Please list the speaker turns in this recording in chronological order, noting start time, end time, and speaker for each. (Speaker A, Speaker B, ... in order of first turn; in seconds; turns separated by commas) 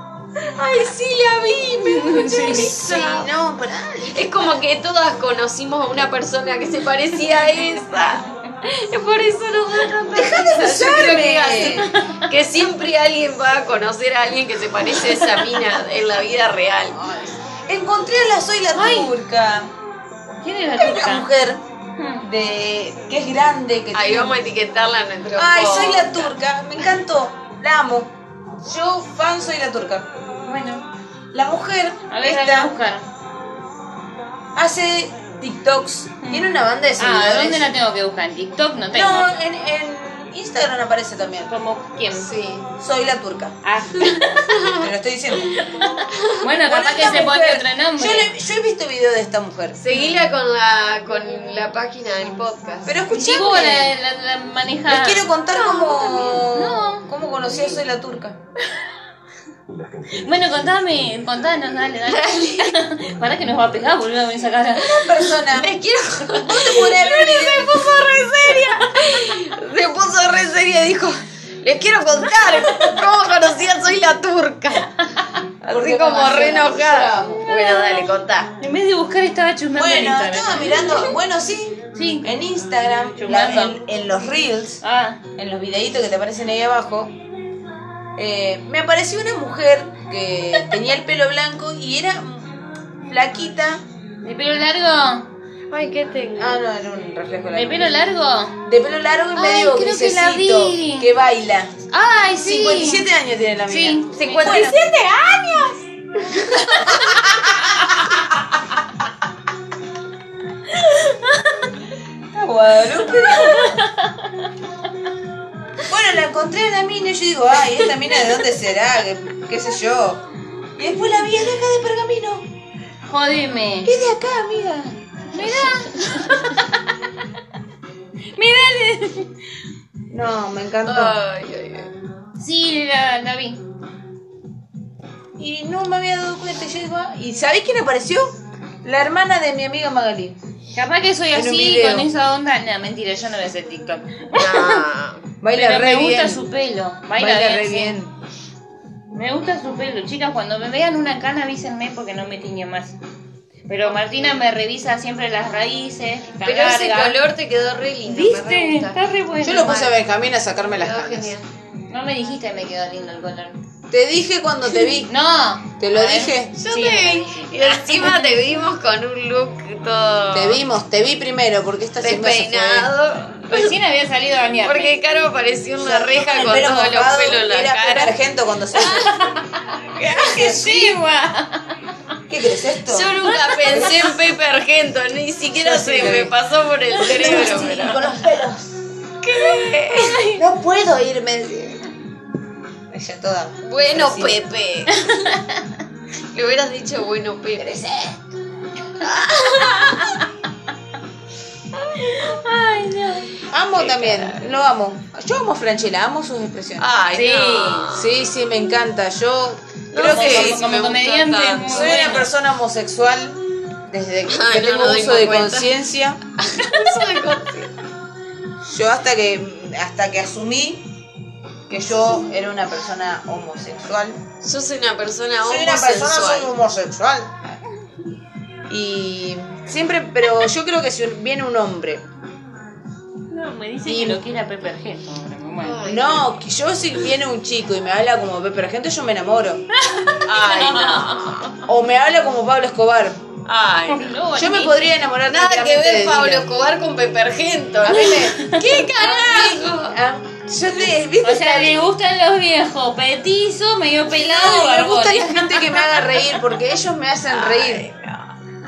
Speaker A: 0.4-3.3, Speaker B: 2.1-2.7, Speaker C: 2.1-4.5, Speaker A: 4.1-17.0, Speaker C: 10.1-11.9, Speaker B: 11.8-12.3, Speaker C: 16.9-19.7, Speaker B: 18.8-19.1, Speaker B: 20.4-21.3, Speaker C: 20.8-21.6, Speaker B: 22.0-22.3, Speaker C: 22.2-24.3, Speaker A: 23.9-26.3, Speaker C: 25.4-30.1, Speaker B: 30.4-30.9, Speaker C: 31.3-32.7, Speaker B: 32.1-33.1, Speaker C: 34.6-37.7, Speaker B: 36.2-39.3, Speaker C: 38.9-41.5, Speaker B: 41.5-42.3, Speaker A: 42.2-42.7, Speaker C: 42.8-43.6, Speaker B: 43.6-44.5, Speaker A: 44.5-44.9, Speaker C: 44.7-45.6, Speaker B: 45.6-48.3, Speaker A: 46.1-46.4, Speaker C: 46.6-49.8, Speaker A: 49.8-53.0, Speaker B: 49.9-50.2, Speaker C: 52.9-53.9, Speaker B: 53.1-55.3, Speaker C: 54.9-58.4, Speaker A: 55.5-56.5, Speaker B: 56.5-57.1, Speaker B: 60.1-65.1, Speaker A: 62.1-62.8, Speaker C: 64.8-65.7, Speaker A: 65.1-74.9, Speaker C: 66.4-67.9, Speaker A: 75.6-78.5, Speaker C: 75.6-77.5, Speaker B: 77.5-78.0, Speaker B: 78.6-81.1, Speaker C: 79.8-84.8, Speaker B: 82.0-82.3, Speaker B: 83.2-83.8, Speaker B: 84.8-85.2, Speaker C: 85.4-87.1, Speaker C: 88.2-93.8, Speaker B: 94.2-95.3, Speaker A: 95.7-96.6, Speaker C: 96.4-98.0, Speaker B: 97.5-98.6, Speaker C: 98.6-101.7, Speaker B: 99.4-101.1, Speaker B: 101.9-103.0, Speaker C: 102.4-104.8, Speaker B: 103.7-104.6, Speaker A: 104.1-107.3, Speaker C: 106.5-108.3, Speaker A: 110.9-111.4, Speaker C: 112.3-113.8, Speaker B: 113.2-114.5, Speaker C: 115.8-122.5, Speaker B: 123.0-123.9, Speaker C: 123.9-125.0, Speaker B: 125.3-126.7, Speaker B: 128.3-129.3, Speaker C: 130.1-131.2, Speaker A: 130.8-131.9, Speaker B: 132.4-133.6, Speaker C: 135.4-140.4, Speaker B: 140.7-144.9, Speaker C: 141.3-142.1, Speaker A: 144.3-145.2, Speaker C: 145.4-146.4, Speaker B: 145.5-147.9, Speaker C: 147.2-148.1, Speaker B: 149.1-153.0, Speaker B: 153.7-157.2, Speaker A: 156.4-160.0, Speaker B: 158.1-159.8, Speaker C: 159.4-161.3, Speaker A: 160.7-161.4, Speaker B: 161.9-163.6, Speaker C: 163.9-165.1, Speaker B: 164.9-168.3, Speaker C: 165.8-166.6, Speaker A: 166.6-170.6, Speaker C: 170.3-172.9, Speaker A: 172.0-173.7, Speaker B: 173.5-174.9, Speaker A: 174.6-178.1, Speaker C: 175.8-179.1, Speaker A: 178.8-179.1, Speaker B: 179.1-179.5, Speaker A: 179.9-180.9, Speaker B: 180.1-181.7, Speaker C: 180.3-180.8, Speaker C: 182.3-184.0, Speaker A: 182.9-188.2, Speaker B: 183.3-184.1, Speaker C: 185.5-186.3, Speaker C: 187.0-188.8, Speaker B: 187.1-187.8, Speaker A: 189.2-190.4, Speaker C: 190.3-191.9, Speaker C: 192.9-194.4, Speaker A: 193.6-195.3, Speaker B: 194.9-195.7, Speaker A: 196.3-197.7, Speaker C: 197.6-198.3, Speaker A: 199.0-200.2, Speaker A: 201.7-202.6, Speaker B: 202.3-203.3, Speaker C: 203.5-206.9, Speaker A: 203.7-204.6, Speaker A: 206.8-208.1, Speaker B: 207.1-207.9, Speaker C: 207.9-210.7, Speaker A: 209.9-212.2, Speaker B: 210.1-212.3, Speaker C: 211.7-216.2, Speaker A: 214.3-215.7, Speaker A: 216.5-217.7, Speaker C: 218.7-220.9, Speaker C: 221.7-224.2, Speaker A: 224.4-226.5, Speaker C: 225.4-227.6, Speaker C: 228.7-232.0, Speaker B: 233.3-235.9, Speaker C: 233.8-234.2, Speaker A: 235.6-236.3, Speaker C: 235.8-239.6, Speaker B: 239.8-241.2, Speaker A: 240.2-241.7, Speaker C: 241.6-243.2, Speaker A: 243.4-244.1, Speaker B: 243.9-244.9, Speaker C: 244.4-246.5, Speaker A: 245.3-250.0, Speaker C: 247.8-251.8, Speaker B: 247.9-248.7, Speaker B: 251.2-255.8, Speaker C: 254.1-257.9, Speaker A: 255.6-256.2, Speaker A: 257.3-258.3